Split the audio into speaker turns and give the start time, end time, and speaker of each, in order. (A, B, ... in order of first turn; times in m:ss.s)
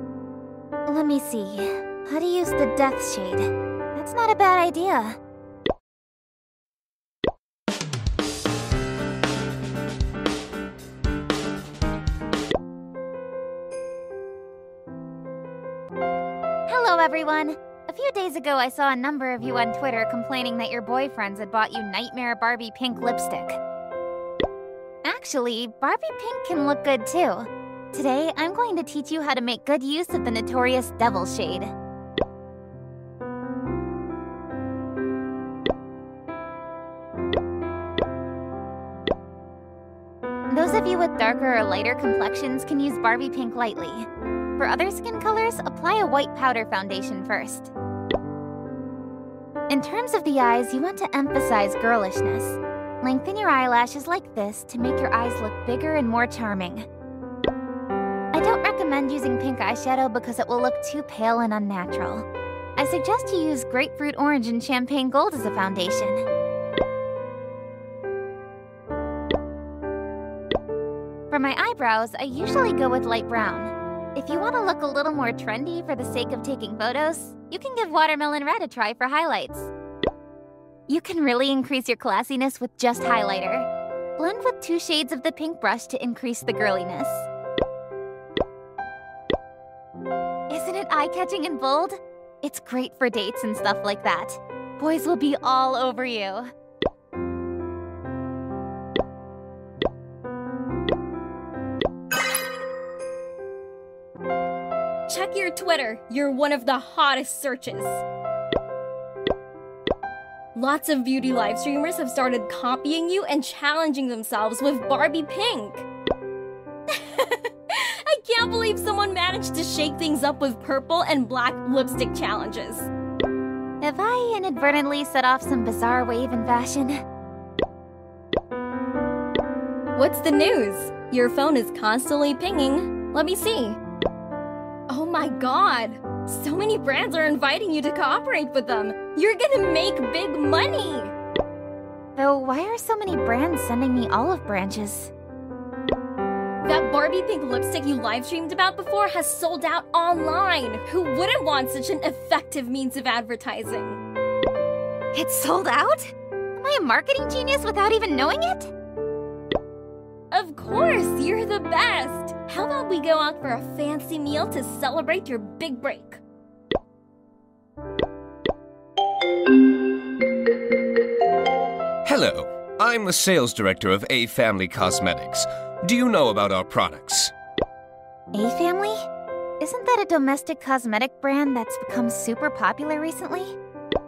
0:00.9-0:05.2 A
0:16.7-0:23.6 A
0:25.0-0:31.7 A
0:40.5-0:44.1 A
0:44.6-0:47.7 A
0:49.7-0:56.9 A
0:58.3-1:02.3 A
1:02.8-1:06.2 A
1:11.3-1:19.7 A
1:20.9-1:23.7 A
1:24.2-1:27.3 A
1:30.5-1:36.5 A
1:45.1-1:48.0 B
1:50.6-1:55.9 B
1:56.9-2:02.9 B
2:03.8-2:07.0 A
2:10.0-2:13.8 B
2:14.9-2:21.1 B
2:22.2-2:25.1 A
2:26.6-2:34.0 B
2:35.1-2:38.7 A
2:40.3-2:46.2 B
2:52.0-2:57.3 C
2:58.3-2:59.0 A
2:59.6-3:03.6 A